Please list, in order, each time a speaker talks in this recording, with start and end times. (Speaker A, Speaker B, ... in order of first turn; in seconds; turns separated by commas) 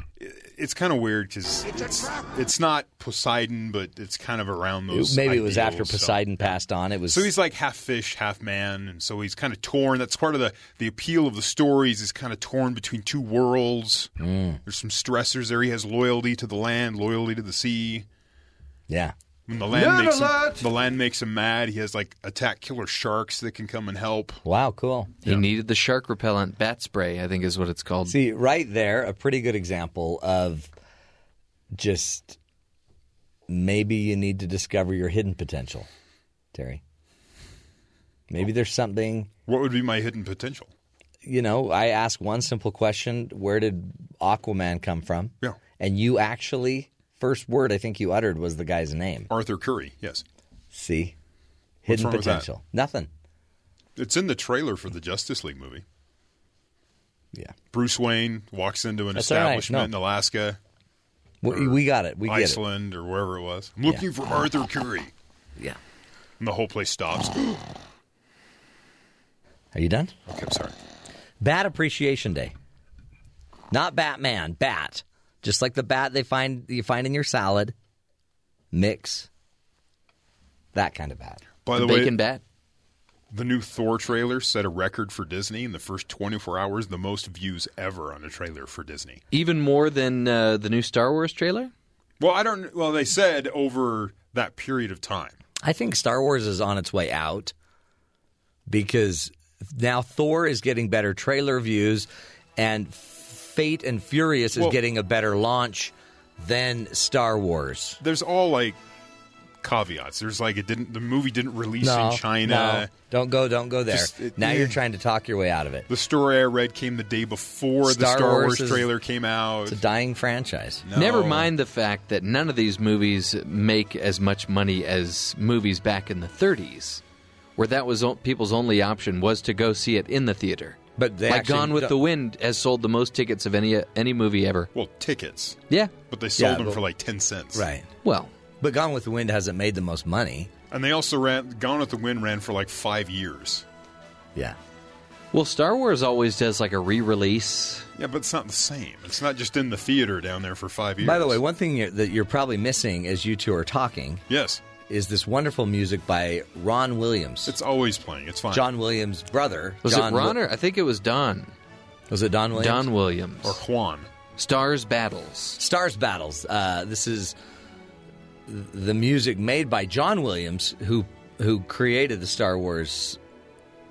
Speaker A: 0.2-6.6, Speaker B: 4.9-7.3, Speaker A: 7.1-14.1, Speaker B: 14.2-14.6, Speaker A: 14.7-18.1, Speaker B: 18.9-19.1, Speaker A: 19.5-24.4, Speaker B: 24.4-25.4, Speaker C: 25.2-28.1, Speaker B: 28.1-30.7, Speaker B: 31.7-32.4, Speaker B: 33.5-35.9, Speaker B: 36.5-36.8, Speaker B: 38.3-39.3, Speaker A: 39.5-40.7, Speaker B: 41.2-49.3, Speaker A: 49.3-50.2, Speaker B: 50.7-51.1, Speaker B: 51.8-53.1, Speaker A: 51.9-52.5, Speaker A: 54.0-55.8, Speaker A: 57.7-60.6, Speaker B: 59.1-59.9, Speaker B: 61.4-62.6, Speaker A: 61.5-65.1, Speaker B: 63.9-64.5, Speaker A: 66.4-67.6, Speaker B: 69.7-70.1, Speaker A: 70.3-70.7, Speaker B: 71.4-72.5, Speaker B: 73.7-77.7, Speaker B: 78.7-79.3, Speaker B: 80.7-81.4, Speaker A: 81.7-82.1, Speaker C: 81.7-82.4, Speaker A: 83.3-89.2, Speaker C: 89.3-91.7, Speaker A: 92.2-95.3, Speaker B: 95.6-97.5, Speaker B: 98.7-108.0, Speaker A: 108.0-108.8, Speaker A: 109.6-112.9, Speaker B: 111.8-115.9, Speaker A: 113.9-114.8, Speaker A: 115.9-119.8, Speaker B: 117.8-118.9, Speaker B: 119.7-120.8, Speaker A: 120.8-121.5, Speaker C: 120.9-127.0, Speaker C: 127.6-134.7, Speaker B: 131.0-132.0, Speaker A: 134.7-137.7, Speaker B: 136.4-136.8, Speaker B: 137.5-137.9, Speaker C: 138.0-138.3, Speaker B: 138.6-140.5, Speaker A: 140.7-143.6, Speaker C: 145.3-147.9, Speaker A: 148.0-151.4, Speaker B: 151.0-154.2, Speaker A: 154.3-154.6, Speaker B: 154.9-157.6, Speaker A: 157.4-158.7, Speaker B: 158.5-160.4, Speaker C: 159.8-161.5, Speaker B: 162.1-162.9, Speaker C: 162.6-163.6, Speaker A: 163.4-164.1, Speaker C: 164.4-165.6, Speaker B: 165.6-167.3, Speaker B: 168.5-173.2